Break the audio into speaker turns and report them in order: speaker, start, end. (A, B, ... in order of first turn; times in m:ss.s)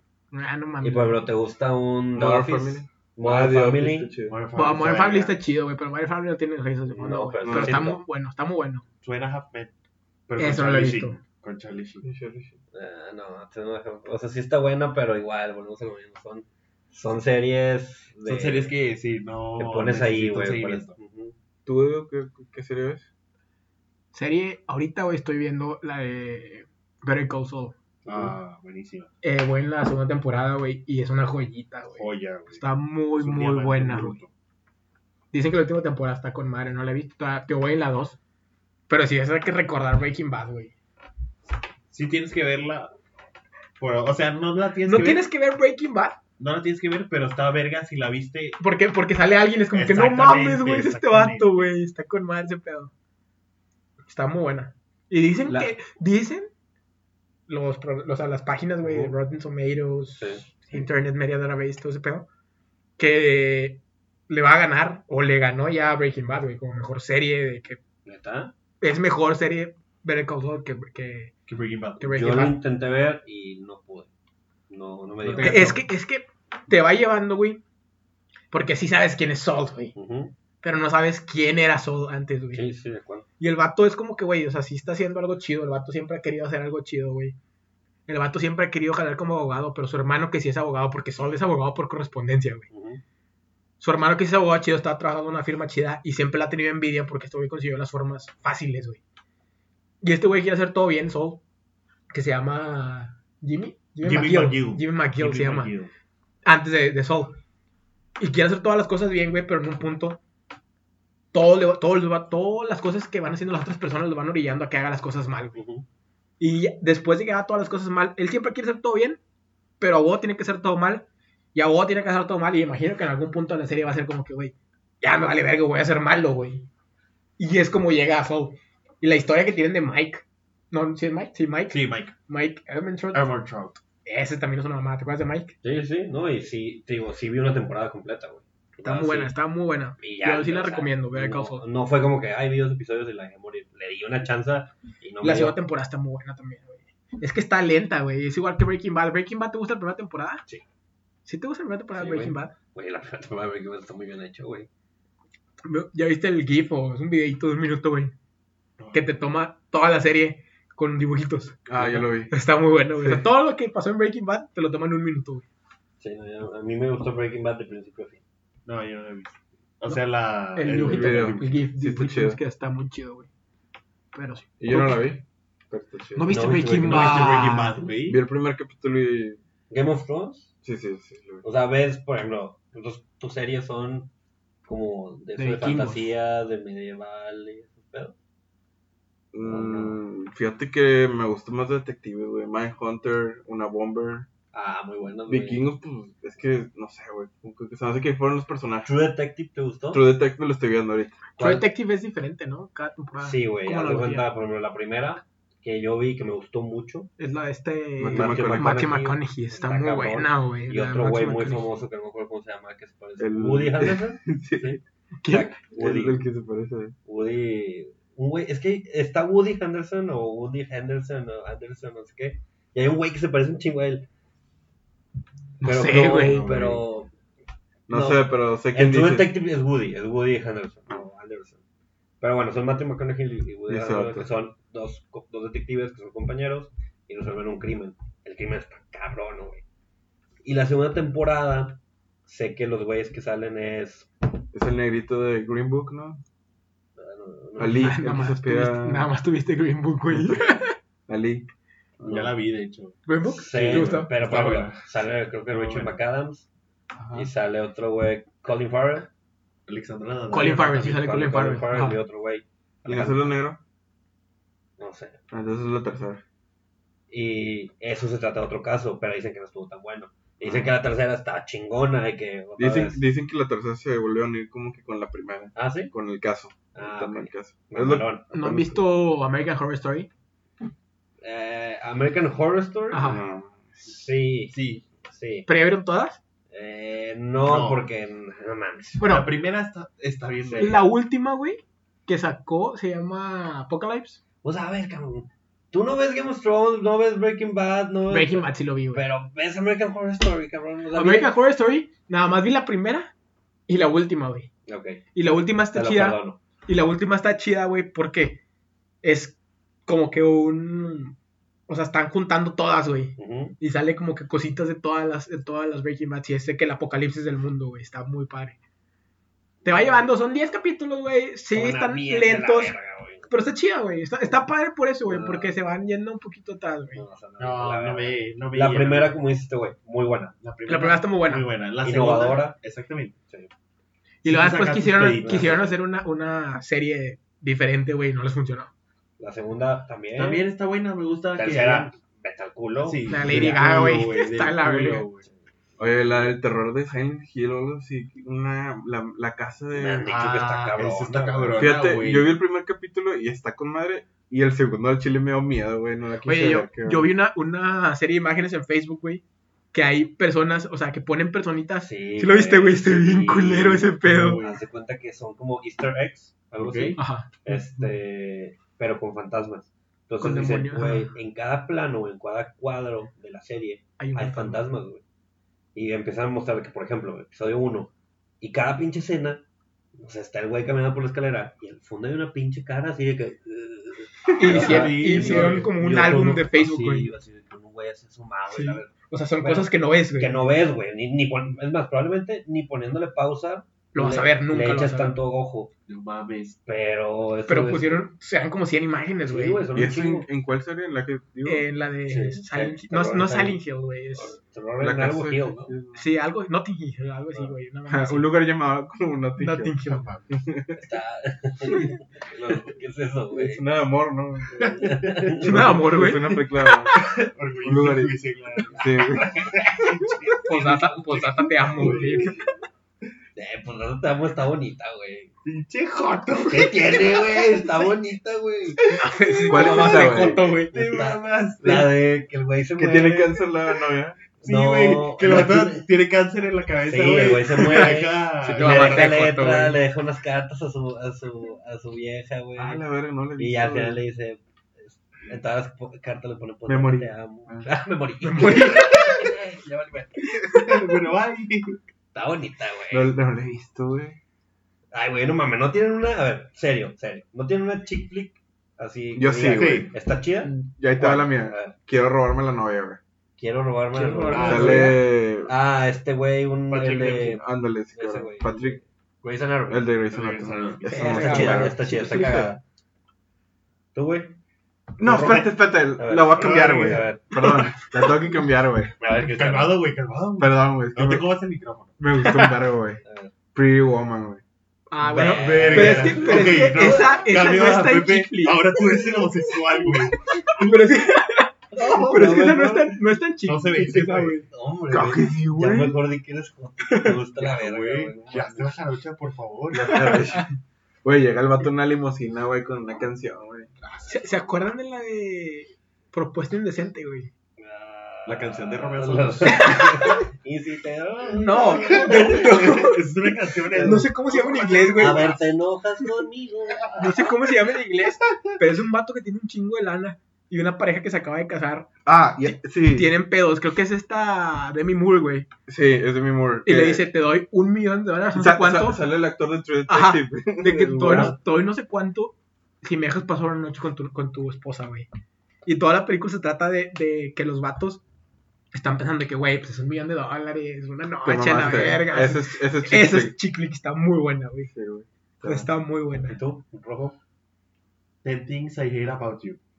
0:00.3-0:01.2 A
0:00.8-0:04.1 B
0:02.2-0:04.4 C
0:04.3-0:05.4 D
0:04.6-0:08.8 A
0:06.9-0:08.0 B
0:07.4-0:07.8 C
0:09.0-0:09.7 D
0:10.3-0:12.1 D
0:10.4-0:11.2 A
0:12.0-0:12.6 C
0:12.7-0:18.7 B
0:18.3-0:21.0 D
0:19.6-0:21.3 B
0:21.7-0:23.0 C
0:24.1-0:27.8 A
0:28.1-0:29.1 D
0:29.2-0:34.2 A
0:32.0-0:32.6 D
0:33.2-0:34.3 D
0:35.3-0:38.2 A
0:38.9-0:40.7 A
0:41.9-0:42.9 D
0:43.8-0:45.3 D
0:44.8-0:46.2 A
0:46.4-0:48.6 D
0:48.6-0:52.9 A
0:49.7-0:51.6 D
0:54.1-0:56.5 A
0:55.5-0:55.8 B
0:57.5-1:02.3 A
0:58.8-0:59.1 B
1:00.2-1:00.4 B
1:03.0-1:07.8 A
1:08.1-1:08.5 B
1:08.8-1:11.3 A
1:11.5-1:12.1 D
1:12.0-1:12.6 A
1:12.1-1:14.1 B
1:14.7-1:15.8 B
1:15.2-1:15.8 D
1:15.4-1:17.6 A
1:18.5-1:19.9 A
1:20.0-1:20.4 B
1:20.6-1:22.6 A
1:22.5-1:23.3 B
1:23.4-1:27.4 A
1:28.1-1:32.7 A
1:32.7-1:33.0 B
1:33.8-1:39.0 A
1:40.0-1:41.4 A
1:42.1-1:45.7 A
1:44.0-1:45.9 D
1:46.4-1:47.4 A
1:48.2-1:50.2 A
1:51.3-1:55.6 A
1:55.6-1:55.8 B
1:56.4-1:59.2 A
1:59.8-2:06.7 A
2:07.4-2:13.3 A
2:11.7-2:12.2 D
2:13.1-2:13.8 D
2:14.0-2:15.6 A
2:15.6-2:19.3 B
2:18.8-2:21.6 A
2:20.0-2:25.6 B
2:25.2-2:30.4 A
2:31.3-2:32.5 A
2:32.0-2:34.7 B
2:35.6-2:38.1 A
2:38.9-2:45.5 A
2:41.7-2:42.3 C
2:43.0-2:43.2 C
2:46.0-2:48.2 B
2:48.7-2:51.5 D
2:50.6-2:53.3 A
2:50.8-2:52.4 C
2:54.1-2:55.1 A
2:54.6-2:57.1 C
2:56.2-2:57.8 A
2:56.3-2:57.4 B
2:56.9-2:58.2 D
2:58.1-2:59.4 C
2:59.7-3:00.5 B
3:00.6-3:01.4 C
3:01.4-3:04.1 B
3:04.6-3:08.2 B
3:05.4-3:06.1 A
3:09.3-3:14.3 C
3:09.4-3:10.0 B
3:14.5-3:15.7 B
3:15.3-3:18.9 C
3:18.8-3:20.0 B
3:19.9-3:21.2 C
3:21.4-3:21.7 B
3:21.4-3:24.3 A
3:23.2-3:27.1 B
3:27.2-3:31.6 A
3:28.0-3:28.9 C
3:28.1-3:36.2 B
3:33.2-3:34.8 C
3:35.2-3:35.5 A
3:35.8-3:37.0 C
3:37.1-3:44.1 B
3:45.6-3:47.1 B
3:45.6-3:46.5 A
3:46.3-3:46.8 C
3:47.9-3:49.3 C
3:47.9-3:51.6 B
3:52.2-3:59.6 B
3:53.7-3:54.3 C
4:00.4-4:04.1 B
4:04.5-4:06.2 C
4:07.0-4:08.0 B
4:07.6-4:09.1 C
4:07.7-4:10.8 A
4:10.1-4:11.5 C
4:12.0-4:12.3 B
4:12.0-4:13.0 D
4:13.1-4:14.1 A
4:13.3-4:16.5 B
4:13.5-4:14.9 D
4:15.5-4:16.0 D
4:17.0-4:17.3 C
4:17.1-4:19.1 B
4:19.7-4:20.8 D
4:20.3-4:22.0 A
4:20.4-4:23.2 B
4:22.9-4:23.6 C
4:24.8-4:25.2 B
4:25.3-4:26.2 C
4:27.1-4:33.0 B
4:32.6-4:38.8 C
4:35.6-4:35.9 B
4:36.7-4:38.3 B
4:38.3-4:40.1 A
4:41.2-4:43.1 B
4:42.9-4:43.2 A
4:43.0-4:43.8 C
4:43.8-4:45.5 B
4:44.5-4:44.8 D
4:45.5-4:46.2 A
4:46.5-4:49.0 B
4:47.4-4:47.8 D
4:49.0-4:49.3 A
4:49.0-4:50.9 D
4:50.6-4:54.2 A
4:54.4-5:01.4 B
4:58.1-4:59.0 A
5:01.0-5:03.1 A
5:03.7-5:04.5 A
5:04.7-5:06.4 B
5:05.2-5:08.4 A
5:09.0-5:11.2 A
5:11.7-5:18.6 A
5:13.2-5:13.6 B
5:19.6-5:20.0 B
5:19.6-5:22.8 A
5:21.5-5:23.3 B
5:23.3-5:27.0 A
5:25.1-5:25.5 B
5:26.9-5:30.4 B
5:27.4-5:29.2 D
5:30.4-5:33.2 D
5:30.7-5:31.5 A
5:31.8-5:32.6 B
5:34.2-5:38.7 A
5:34.2-5:35.6 D
5:35.2-5:35.8 B
5:39.2-5:40.5 B
5:40.2-5:41.9 D
5:41.4-5:43.5 B
5:42.8-5:45.3 D
5:43.1-5:45.1 A
5:45.3-5:46.4 B
5:45.8-5:50.1 C
5:49.7-5:51.7 B
5:50.0-5:52.3 D
5:51.5-5:57.1 C
5:56.3-6:04.4 A
6:01.8-6:15.0 B
6:04.0-6:04.6 D
6:06.6-6:07.0 D
6:07.0-6:07.4 A
6:10.2-6:11.1 A
6:14.0-6:14.6 A
6:15.8-6:19.4 B
6:20.0-6:35.7 B
6:24.4-6:27.1 A
6:24.4-6:25.8 D
6:28.5-6:30.4 A
6:33.9-6:35.2 A
6:35.9-6:36.6 D
6:36.7-6:38.1 B
6:37.5-6:39.6 A
6:39.3-6:40.3 B
6:39.7-6:41.6 C
6:41.4-6:44.4 A
6:42.1-6:43.6 B
6:44.2-6:45.7 B
6:44.8-6:46.0 C
6:46.0-6:48.3 A
6:47.9-6:49.7 C
6:49.4-6:50.0 A
6:49.9-6:50.3 D
6:50.3-6:50.8 C
6:50.8-6:53.6 B
6:53.3-6:57.0 C
6:54.6-6:55.5 D
6:54.8-6:55.8 B
6:55.4-6:56.7 A
6:56.9-7:00.6 D
6:57.6-6:58.1 C
6:58.8-6:59.3 C
7:00.3-7:01.2 B
7:00.4-7:02.5 A
7:01.4-7:02.3 D
7:03.4-7:05.3 B
7:05.4-7:07.9 D
7:06.5-7:09.0 B
7:08.8-7:09.1 D
7:09.0-7:11.0 A
7:09.5-7:10.4 C
7:09.5-7:13.4 B
7:10.7-7:12.0 D
7:12.8-7:14.2 C
7:14.4-7:15.9 B
7:14.4-7:19.1 D
7:16.9-7:22.8 B
7:17.7-7:19.8 A
7:22.6-7:24.0 C
7:23.4-7:30.4 B
7:26.7-7:27.7 C
7:28.2-7:29.3 A
7:30.4-7:31.8 D
7:32.1-7:33.1 B
7:32.9-7:34.2 C
7:34.9-7:41.8 B
7:39.2-7:39.9 C
7:39.5-7:39.9 D
7:40.4-7:43.0 C
7:43.4-7:49.9 B
7:43.9-7:45.0 A
7:44.3-7:44.9 D
7:44.3-7:45.5 C
7:46.7-7:47.4 D
7:47.4-7:48.8 C
7:49.7-7:52.5 C
7:50.1-7:51.6 D
7:50.9-7:52.4 A
7:50.9-7:52.6 B
7:53.9-7:54.4 B
7:55.0-7:58.9 C
7:55.0-7:55.5 D
7:55.1-7:55.4 B
7:56.0-7:57.3 B
7:56.3-7:57.1 D
7:59.0-8:02.0 D
7:59.1-7:59.8 B
8:00.4-8:01.3 C
8:02.0-8:03.0 C
8:02.2-8:02.6 A
8:03.0-8:03.3 B
8:03.5-8:04.4 C
8:04.9-8:09.6 A
8:05.1-8:07.1 B
8:05.2-8:10.3 D
8:10.1-8:14.5 A
8:11.8-8:12.5 D
8:11.8-8:13.0 B
8:13.4-8:14.4 D
8:14.5-8:18.8 B
8:14.9-8:15.9 C
8:15.1-8:15.8 A
8:16.9-8:17.2 A
8:17.4-8:20.2 D
8:19.7-8:20.5 C
8:21.0-8:23.7 C
8:23.8-8:24.3 D
8:24.1-8:27.3 A
8:27.6-8:32.6 B
8:28.3-8:29.9 D
8:29.5-8:30.2 A
8:31.3-8:33.1 A
8:31.5-8:35.4 D
8:33.7-8:34.1 B
8:33.8-8:35.4 A
8:35.0-8:37.1 B
8:36.8-8:37.1 D
8:37.0-8:41.9 A
8:42.0-8:43.1 C
8:42.4-8:45.5 A
8:45.7-8:47.1 C
8:46.7-8:49.0 A
8:48.3-8:51.4 C
8:49.9-8:55.1 A
8:55.6-8:58.0 A
8:58.7-9:04.7 A
9:01.2-9:03.4 C
9:04.7-9:05.7 C
9:05.4-9:06.4 A
9:06.3-9:07.2 B
9:08.2-9:09.6 D